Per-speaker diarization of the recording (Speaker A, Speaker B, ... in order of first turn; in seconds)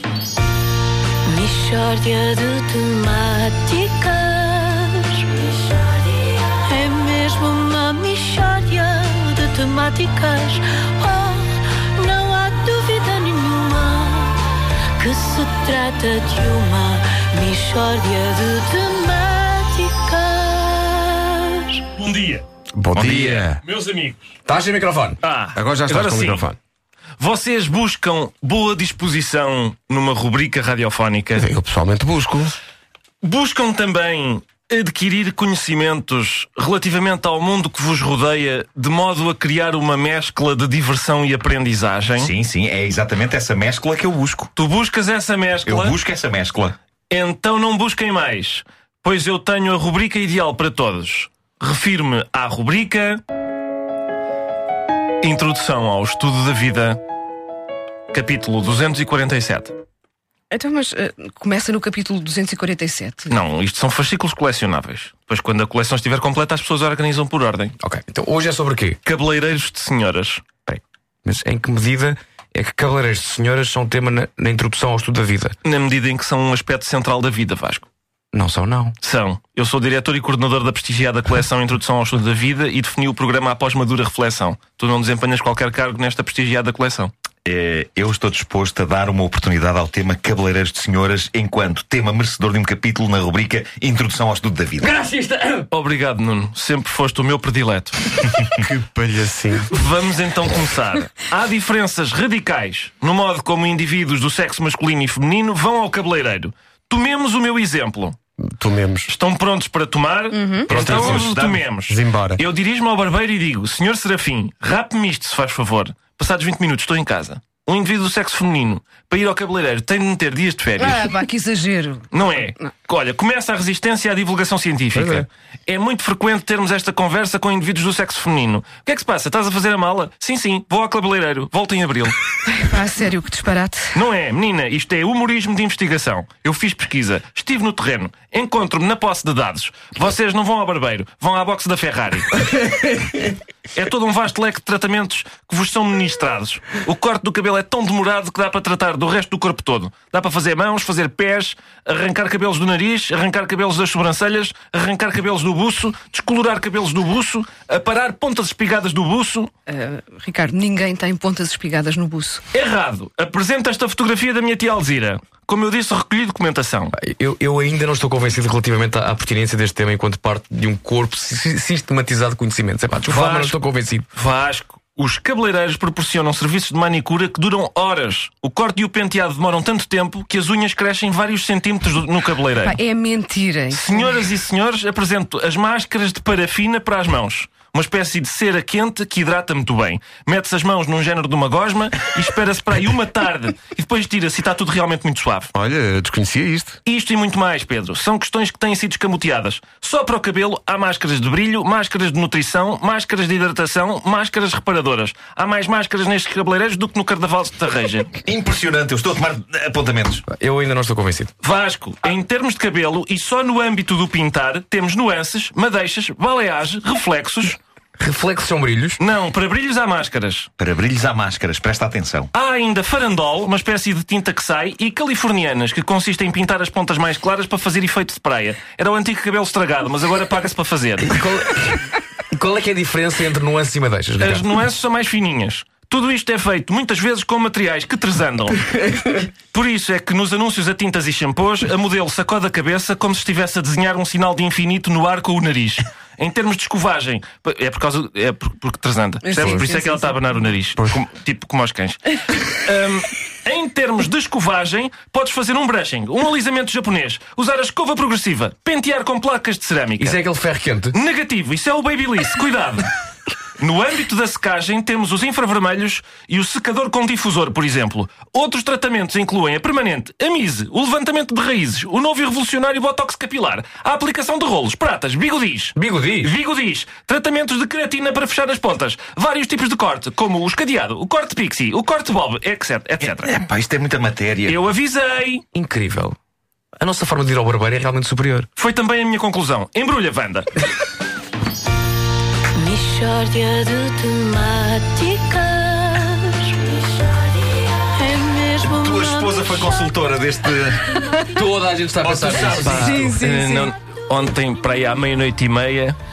Speaker A: 1.2-14.4, 15.0-21.9, 292.5-300.0
Speaker B: 21.9-22.4, 23.1-24.3, 25.2-26.5, 27.2-31.5, 33.2-42.3, 44.6-46.0, 47.1-53.2, 55.2-57.0, 58.1-59.8, 63.3-67.8, 69.0-70.4, 75.6-77.9, 79.0-87.1, 95.7-98.0, 99.7-108.2, 109.1-121.2, 122.1-132.2, 133.9-142.4, 143.7-159.5, 162.5-166.9, 173.1-173.6, 174.1-182.8, 183.7-195.5, 196.9-208.1, 211.4-217.6, 219.0-220.5, 222.3-231.1, 234.2-260.2, 260.9-262.9, 263.6-283.4, 284.5-285.4, 288.6-290.6, 302.5-306.0
Speaker C: 22.8-23.5, 25.6-26.6, 31.4-32.5, 98.6-99.7, 108.5-109.1, 111.0-111.3, 111.9-112.4, 124.9-125.3, 195.5-196.8, 249.4-249.7
Speaker D: 22.9-23.6, 42.2-44.5, 45.6-46.8, 87.5-95.0, 110.7-111.7, 208.2-210.2, 220.6-222.3, 283.0-284.6, 298.6-301.0, 302.0-303.1
Speaker E: 24.5-25.2, 67.8-69.0, 70.7-75.6, 78.3-79.0, 94.8-95.7, 166.9-174.1, 210.3-211.3, 218.0-219.0, 231.0-234.5, 260.0-260.9, 275.8-276.3, 285.5-286.2, 286.8-288.5, 301.3-303.0
Speaker F: 60.5-63.4, 110.3-110.8, 120.8-122.2, 132.5-134.0, 159.7-162.4, 182.6-184.2, 249.2-250.2, 302.8-303.7